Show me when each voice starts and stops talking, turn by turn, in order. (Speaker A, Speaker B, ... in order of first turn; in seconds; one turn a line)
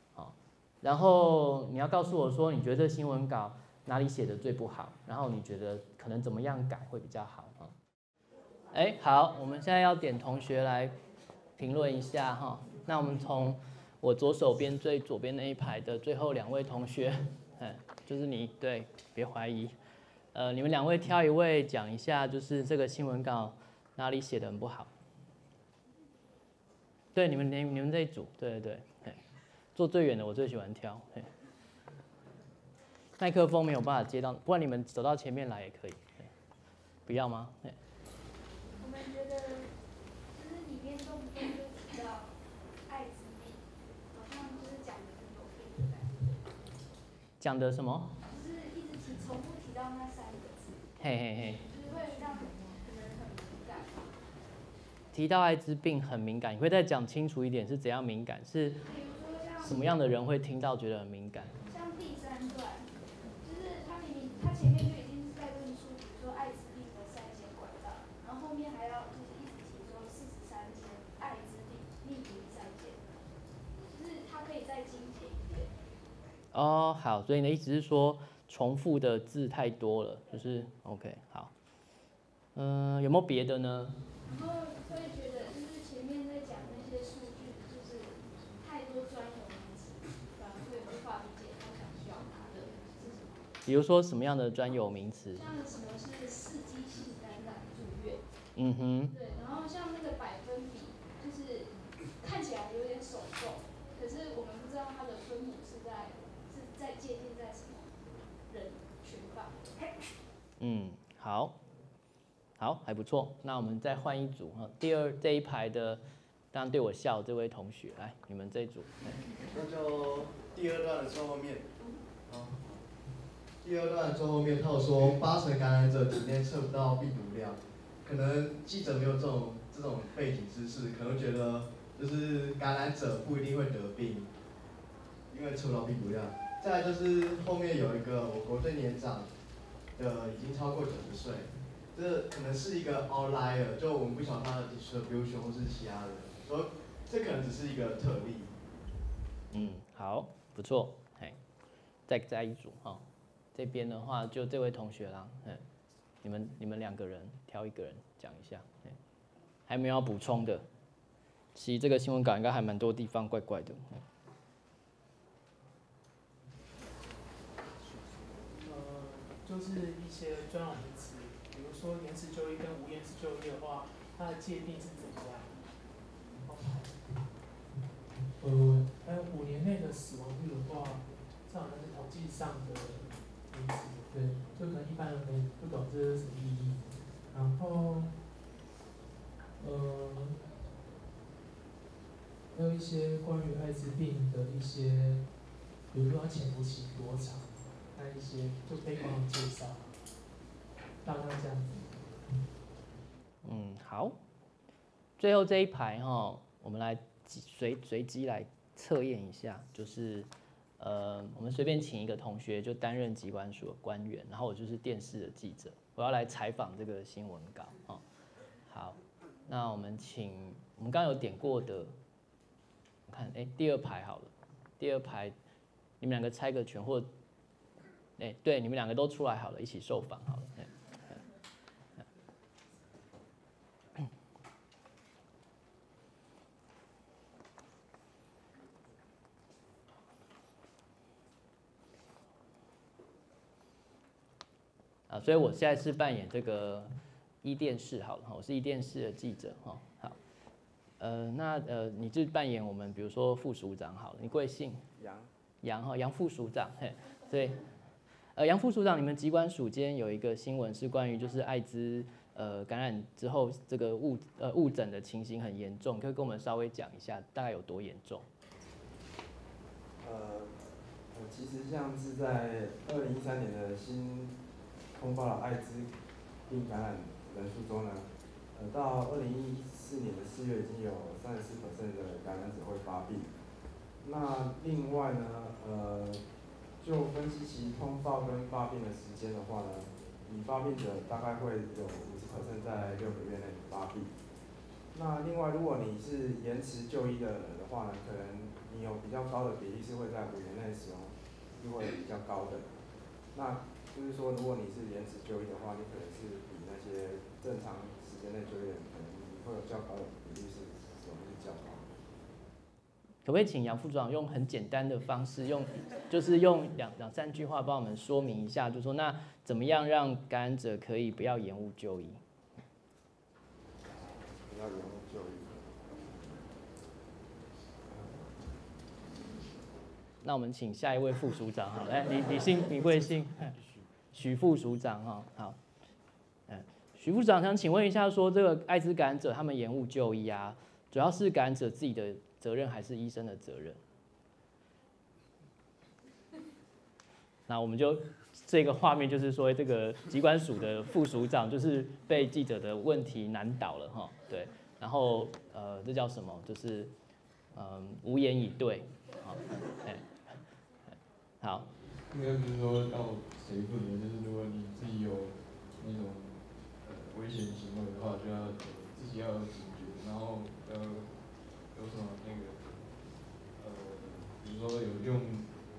Speaker A: 0.2-7.7
Speaker A: 8.7-10.9
Speaker A: 11.6-19.7
Speaker A: 20.3-24.9
Speaker A: 27.1-29.2
Speaker A: 29.8-31.3
Speaker A: 33.2-36.1
Speaker A: 37.1-37.8
Speaker B: 38.8-39.7
Speaker B: 40.3-42.4
Speaker B: 42.9-46.5
Speaker A: 47.4-48.2
Speaker B: 48.2-54.1
Speaker A: 51.0-51.6
Speaker A: 55.1-58.8
Speaker B: 58.8-59.8
Speaker A: 59.6-61.6
Speaker B: 61.7-73.1
Speaker B: 73.9-75.7
Speaker A: 76.5-81.5
Speaker A: 82.5-84.0
Speaker B: 84.2-93.5
Speaker A: 93.7-95.4
Speaker B: 95.3-98.2
Speaker A: 98.6-99.1
Speaker B: 99.1-107.9
Speaker B: 108.5-109.8
Speaker A: 110.6-111.6
Speaker A: 112.6-116.0
Speaker A: 116.5-119.2
Speaker C: 119.5-121.7
Speaker C: 122.3-122.8
Speaker C: 123.6-134.3
Speaker C: 135.3-139.3
Speaker C: 140.0-148.5
Speaker A: 149.5-151.4
Speaker A: 152.1-153.0
Speaker A: 153.6-155.6
Speaker A: 156.2-159.0
Speaker A: 159.7-160.7
Speaker A: 161.5-164.0
Speaker D: 168.6-175.6
Speaker D: 176.4-177.0
Speaker D: 178.4-188.1
Speaker D: 189.6-190.5
Speaker D: 192.5-195.3
Speaker D: 195.9-200.0
Speaker D: 201.0-202.0
Speaker A: 203.4-204.2
Speaker A: 205.2-210.3
Speaker A: 210.8-218.0
Speaker A: 218.7-221.9
Speaker A: 223.1-225.3
Speaker A: 226.0-227.1
Speaker A: 228.2-231.2
Speaker A: 245.1-246.9
Speaker A: 247.4-250.2
Speaker A: 251.0-254.8
Speaker E: 255.0-255.3
Speaker A: 255.6-257.6
Speaker A: 258.4-268.3
Speaker E: 270.0-274.4
Speaker E: 274.9-283.3
Speaker E: 284.0-286.2
Speaker E: 286.8-294.2
Speaker E: 294.9-302.8
Speaker E: 303.3-311.9
Speaker A: 313.2-322.2
Speaker E: 323.8-326.1
Speaker E: 327.9-328.4
Speaker A: 330.2-333.6
Speaker E: 332.5-333.9
Speaker A: 334.1-335.6
Speaker A: 336.5-343.8
Speaker A: 347.5-356.9
Speaker A: 357.6-360.1
Speaker A: 361.4-361.7
Speaker F: 362.1-371.2
Speaker F: 371.7-373.0
Speaker F: 373.5-375.6